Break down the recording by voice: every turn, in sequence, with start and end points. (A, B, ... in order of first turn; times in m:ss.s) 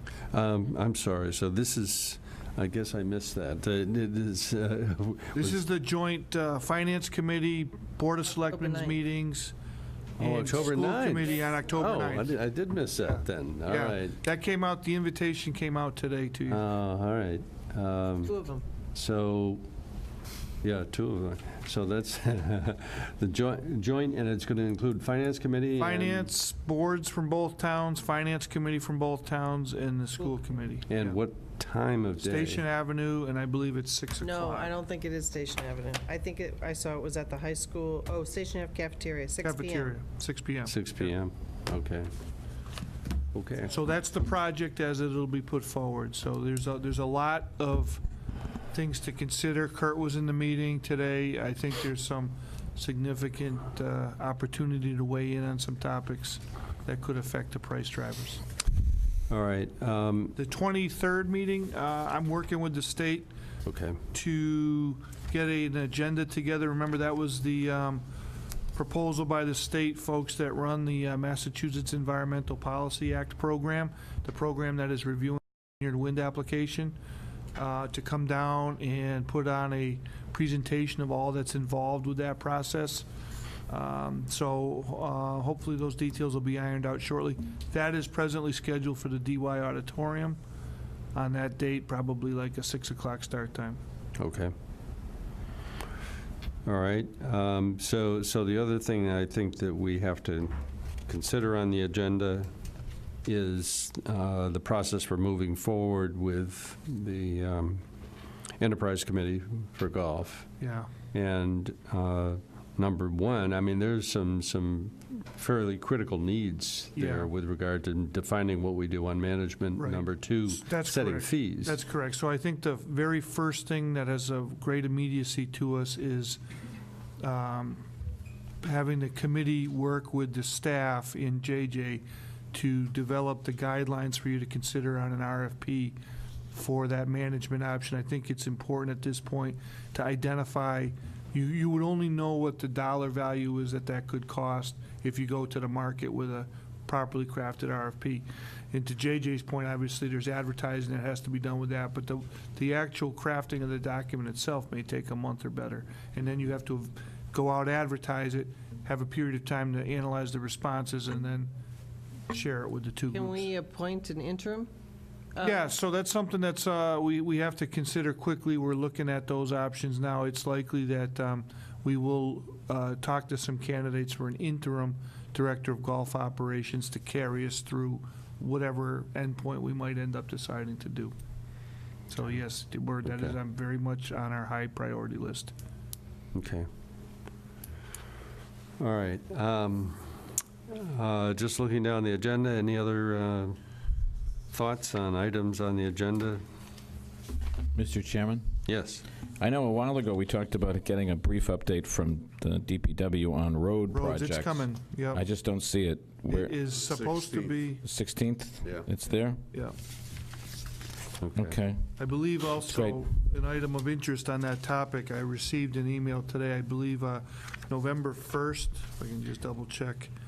0:00.3-0:05.6 A
0:05.3-0:09.6 B
0:08.5-0:09.0 C
0:10.2-0:12.4 B
0:10.2-0:14.2 A
0:13.0-0:16.6 B
0:16.5-0:18.4 A
0:18.2-0:18.6 C
0:18.9-0:19.6 A
0:20.6-0:26.3 A
0:25.8-0:31.2 B
0:30.9-0:32.6 A
0:32.2-0:34.8 B
0:34.2-0:39.9 C
0:39.4-0:41.2 B
0:40.7-0:42.1 A
0:43.3-0:43.7 A
0:43.7-0:48.0 B
0:48.7-0:58.4 B
0:59.3-1:00.3 A
1:00.4-1:03.3 B
1:03.6-1:04.0 A
1:04.1-1:08.0 B
1:08.7-1:17.0 B
1:17.6-1:23.1 B
1:23.7-1:30.4 B
1:31.1-1:33.8 B
1:34.2-1:34.5 A
1:36.6-1:40.6 A
1:41.1-1:42.5 A
1:43.2-1:47.8 A
1:48.6-1:50.6 A
1:50.6-1:50.9 B
1:51.1-2:01.8 A
1:57.0-1:57.3 B
1:59.8-2:06.4 B
2:07.2-2:07.8 B
2:08.6-2:16.0 B
2:16.5-2:41.5 B
2:42.3-2:43.5 B
2:43.1-2:44.7 C
2:45.4-2:45.6 C
2:45.4-3:01.2 B
3:02.1-3:05.6 B
3:06.3-3:06.7 A
3:08.8-3:13.6 A
3:14.5-3:16.4 A
3:17.8-3:18.6 D
3:18.7-3:19.0 A
3:19.4-3:29.4 D
3:23.9-3:25.2 B
3:26.3-3:27.8 B
3:31.2-3:31.6 A
3:31.4-3:33.0 D
3:32.0-3:40.1 B